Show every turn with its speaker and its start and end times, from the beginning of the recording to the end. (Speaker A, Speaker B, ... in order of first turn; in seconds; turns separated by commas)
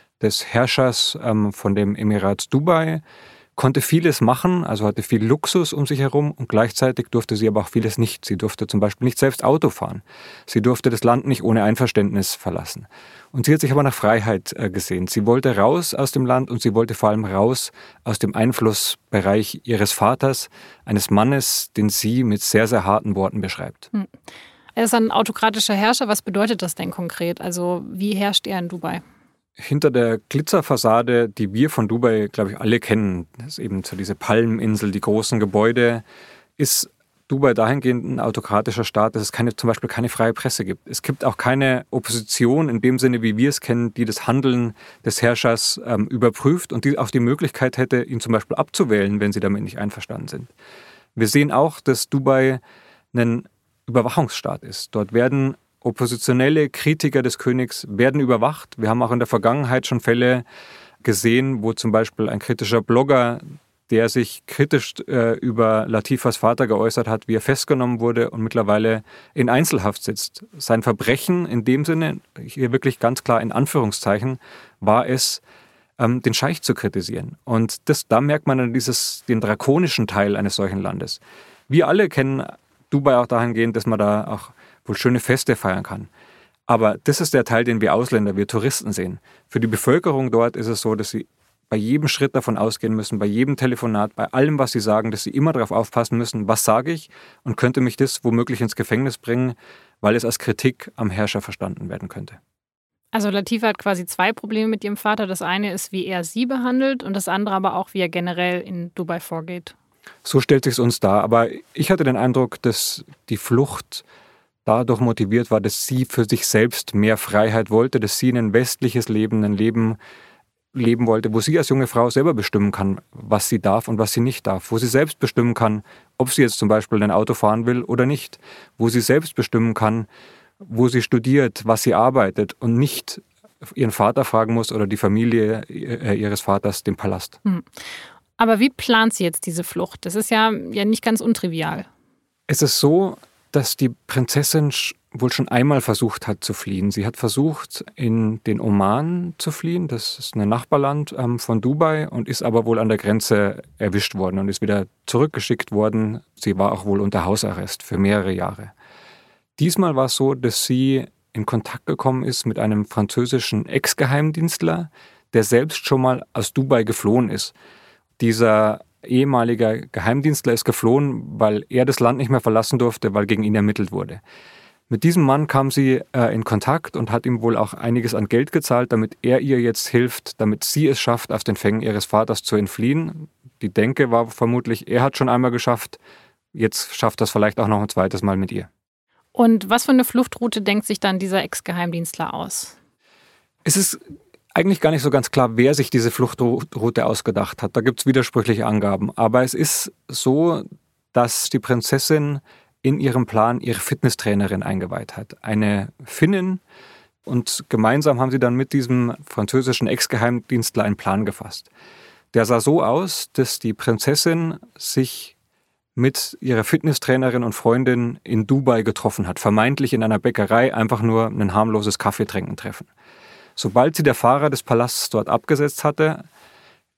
Speaker A: 0.2-3.0, Speaker A: 3.6-23.9, Speaker B: 24.8-29.0, Speaker A: 29.6-36.0, Speaker A: 36.6-50.5, Speaker A: 51.2-52.6, Speaker A: 53.1-60.4, Speaker A: 61.0-75.4, Speaker A: 76.0-86.1, Speaker A: 86.7-102.4, Speaker B: 103.1-109.7, Speaker A: 110.2-114.0, Speaker A: 114.7-120.0, Speaker A: 120.7-130.1, Speaker A: 130.6-137.4, Speaker B: 138.4-141.9, Speaker A: 142.5-158.7, Speaker A: 159.6-167.5, Speaker A: 168.2-174.2, Speaker A: 174.9-186.0, Speaker A: 186.5-188.7, Speaker B: 189.3-192.8, Speaker A: 193.7-194.0, Speaker A: 194.6-206.6, Speaker A: 207.3-211.7, Speaker A: 212.3-215.3, Speaker A: 216.0-222.9, Speaker A: 223.6-226.3